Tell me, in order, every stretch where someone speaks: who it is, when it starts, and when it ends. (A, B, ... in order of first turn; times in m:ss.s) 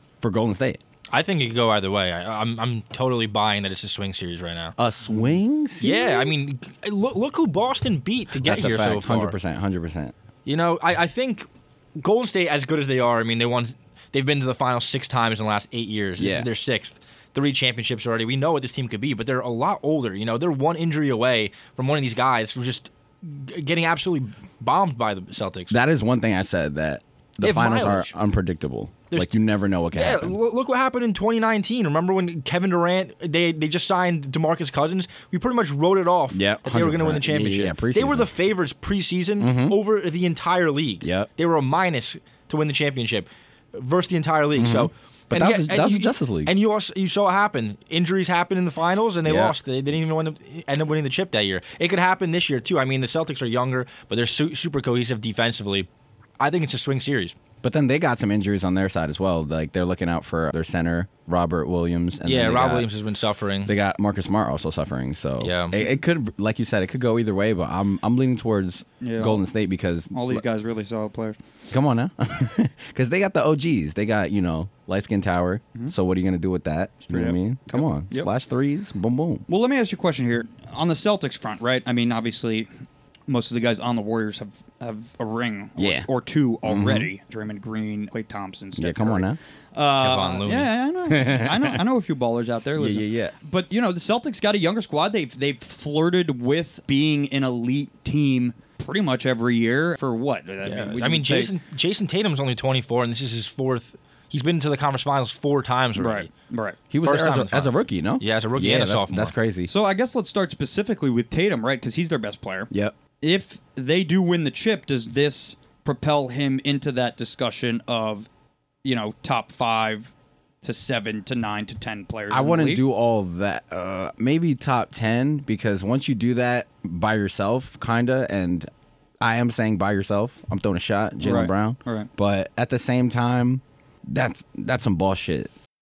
0:00.2-0:00.8 A
0:01.1-0:04.8 B
0:04.8-0:06.4 A
0:05.8-0:09.4 B
0:08.4-0:10.1 A
0:10.4-0:25.8 B
0:16.2-0:16.5 A
0:25.7-0:30.4 A
0:27.4-0:28.1 B
0:29.1-0:29.4 B
0:29.9-0:55.9 B
0:36.3-0:38.3 A
0:39.4-0:39.8 A
0:41.0-0:41.3 A
0:44.6-0:46.5 A
0:49.2-0:49.6 A
0:56.4-0:57.3 B
0:57.6-1:02.9 A
1:02.2-1:03.7 B
1:03.6-1:10.4 A
1:05.4-1:05.9 B
1:09.0-1:09.4 C
1:10.1-1:11.4 C
1:11.7-1:19.4 A
1:17.0-1:18.3 C
1:19.5-1:22.7 C
1:23.3-1:41.5 C
1:25.8-1:26.1 A
1:26.6-1:27.1 A
1:28.8-1:29.4 A
1:30.0-1:30.7 B
1:31.1-1:31.8 A
1:32.8-1:33.3 A
1:40.6-1:46.3 B
1:46.0-1:46.8 C
1:46.9-1:49.7 A
1:47.0-1:49.3 B
1:49.7-1:52.7 C
1:53.2-1:58.3 C
1:58.8-2:00.1 C
2:00.6-2:02.8 C
2:02.3-2:08.7 A
2:09.2-2:15.5 A
2:11.2-2:12.1 C